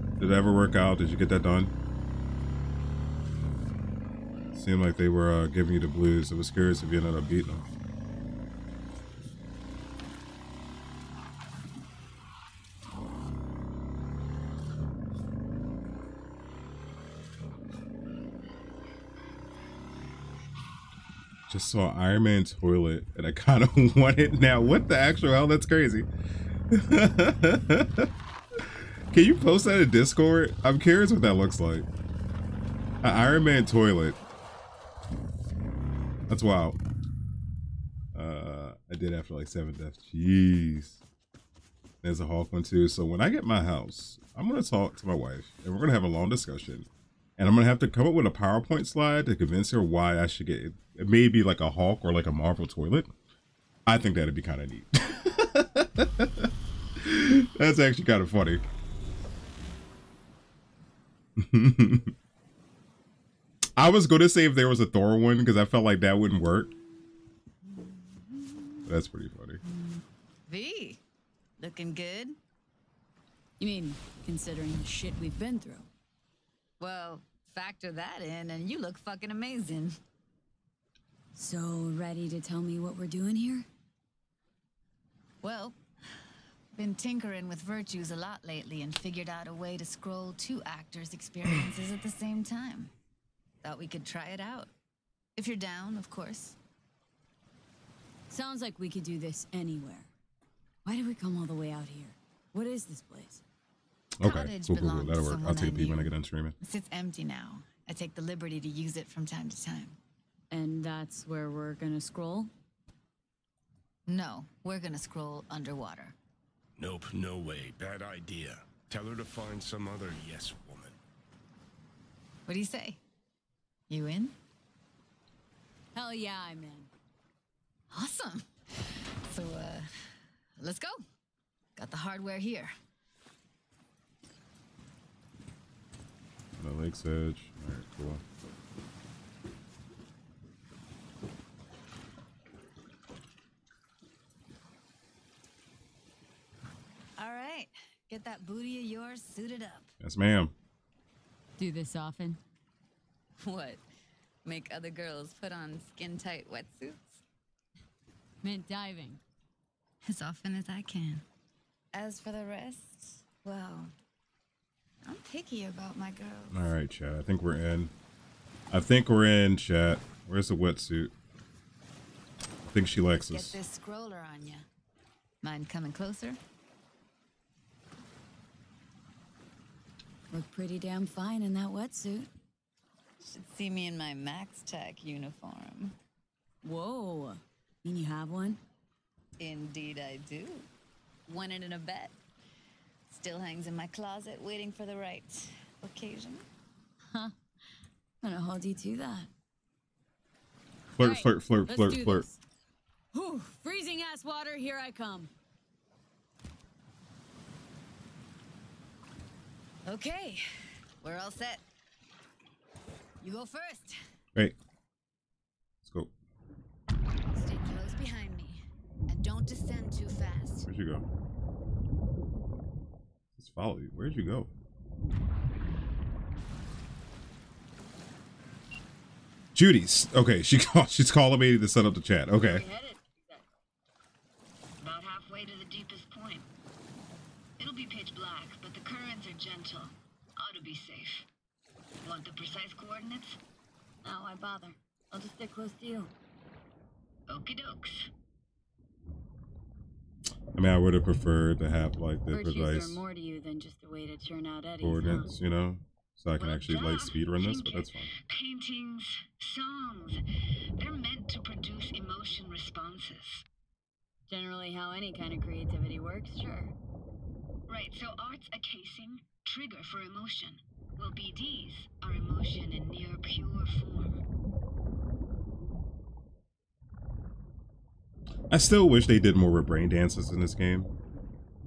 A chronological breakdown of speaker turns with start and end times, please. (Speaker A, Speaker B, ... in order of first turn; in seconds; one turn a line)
Speaker A: 0.2-1.7
Speaker A: 4.5-7.7
Speaker A: 21.5-26.1
Speaker A: 26.7-28.1
Speaker A: 29.1-31.9
Speaker A: 33.0-34.2
Speaker A: 36.3-36.8
Speaker A: 38.1-41.0
Speaker A: 42.0-46.9
Speaker A: 47.4-53.1
Speaker A: 53.9-56.5
Speaker A: 57.0-58.6
Speaker A: 61.4-62.1
Speaker A: 63.8-66.7
Speaker A: 68.9-69.6
Speaker B: 70.5-71.0
Speaker B: 71.6-72.4
Speaker C: 73.6-75.9
Speaker B: 76.8-80.0
Speaker C: 81.3-83.7
Speaker B: 85.4-86.2
Speaker B: 86.7-92.9
Speaker B: 93.6-94.7
Speaker B: 95.4-96.6
Speaker C: 98.3-100.1
Speaker C: 100.8-103.4
Speaker A: 104.2-106.6
Speaker B: 104.2-110.0
Speaker C: 110.5-112.5
Speaker B: 114.1-116.2
Speaker D: 116.8-121.0
Speaker B: 122.5-123.0
Speaker B: 123.9-124.3
Speaker C: 125.9-126.9
Speaker B: 127.9-129.9
Speaker B: 130.6-131.0
Speaker B: 131.8-132.7
Speaker A: 136.6-138.2
Speaker B: 147.2-149.9
Speaker A: 150.0-150.5
Speaker C: 151.6-152.4
Speaker B: 153.4-153.8
Speaker B: 154.4-157.2
Speaker C: 158.4-159.2
Speaker B: 160.0-161.2
Speaker B: 161.9-163.9
Speaker B: 165.1-166.6
Speaker A: 166.5-167.9
Speaker A: 168.7-171.1
Speaker A: 172.7-173.6
Speaker B: 173.3-174.7
Speaker B: 175.4-176.4
Speaker C: 180.3-182.3
Speaker B: 183.2-186.0
Speaker C: 186.6-188.6
Speaker B: 189.4-190.7
Speaker B: 191.3-192.2
Speaker B: 193.1-196.4
Speaker C: 198.2-199.3
Speaker A: 201.0-202.3
Speaker C: 201.0-202.4
Speaker C: 203.1-205.3
Speaker B: 209.8-210.4
Speaker B: 211.0-211.6
Speaker B: 213.2-214.0
Speaker A: 215.8-216.1
Speaker B: 217.3-220.7
Speaker A: 220.7-221.1
Speaker A: 223.4-224.5
Speaker A: 229.6-232.7
Speaker C: 232.3-233.5
Speaker E: 234.8-236.5
Speaker E: 237.6-241.3
Speaker E: 242.0-243.4
Speaker C: 244.0-246.1
Speaker E: 247.3-248.1
Speaker A: 250.6-253.0
Speaker C: 252.3-255.3
Speaker A: 254.8-258.1
Speaker E: 256.4-260.2
Speaker E: 260.8-263.4
Speaker C: 264.3-266.7
Speaker E: 267.7-274.2
Speaker A: 278.5-280.9